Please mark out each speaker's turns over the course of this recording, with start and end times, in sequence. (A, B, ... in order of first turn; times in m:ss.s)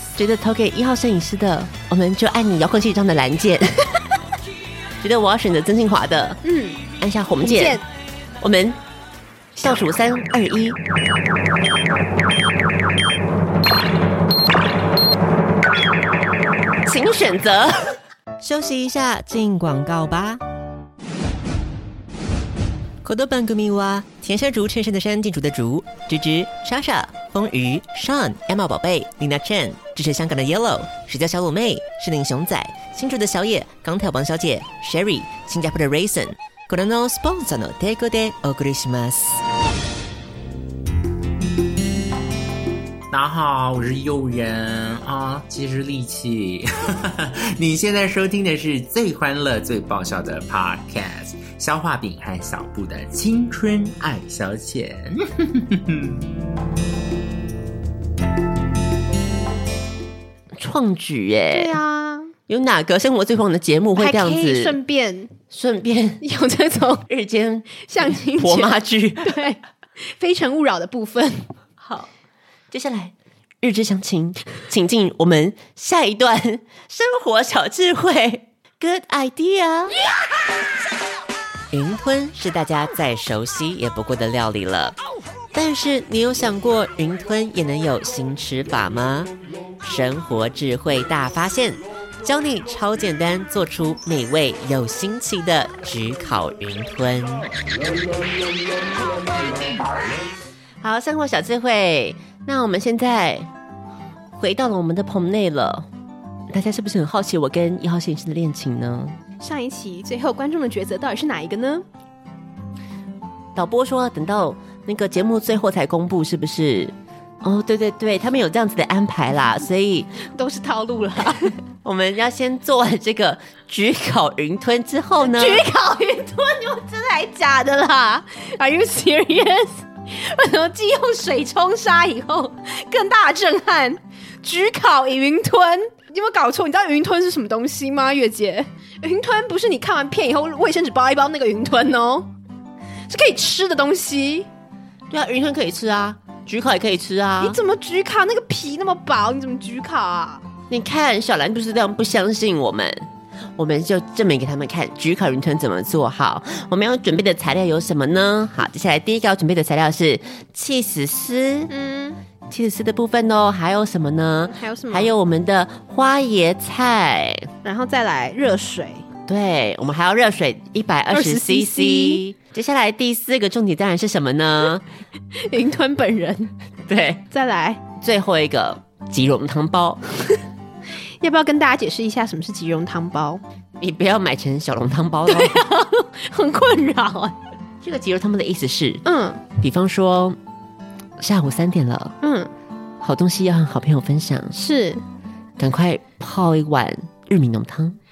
0:00.2-0:04.0 A
0:05.0-0:06.4 A
0:06.4-0:06.8 B
0:07.0-0:07.8 A
0:07.4-0:07.8 B
0:08.4-0:08.8 A
0:09.6-0:10.8 A
0:16.8-0:20.4 A
0:23.0-0:39.4 A
0:43.1-0:56.3 C
1:00.6-1:01.8 A
1:01.5-1:02.4 B
1:02.5-1:04.8 A
1:04.0-1:05.4 B
1:05.5-1:06.2 A
1:06.2-1:07.1 B
1:07.1-1:09.3 A
1:07.8-1:12.1 B
1:12.7-1:20.0 A
1:21.7-1:25.0 A
1:25.5-1:37.5 A
1:40.8-1:43.5 A
1:44.4-1:45.9 A
1:46.5-1:49.2 A
1:49.4-1:51.9 B
1:53.6-2:00.1 A
2:00.2-2:01.5 B
2:01.8-2:05.6 A
2:05.2-2:22.3 B
2:23.1-2:24.5 B
2:25.1-2:27.6 A
2:27.4-2:30.4 B
2:30.7-2:41.7 A
2:41.7-2:42.2 B
2:42.5-2:47.5 A
2:44.5-2:45.2 B
2:47.6-2:49.1 B
2:49.3-2:54.8 A
2:51.1-2:52.2 B
2:55.3-2:56.5 B
2:56.9-2:57.2 A
2:57.3-2:57.8 B
2:58.0-3:00.0 A
3:01.2-3:03.4 B
3:03.8-3:05.6 A
3:05.3-3:07.4 B
3:07.8-3:09.0 A
3:09.0-3:09.4 B
3:09.6-3:10.4 A
3:11.2-3:12.2 A
3:12.2-3:12.5 B
3:13.0-3:14.6 A
3:14.6-3:15.0 B
3:15.6-3:18.0 A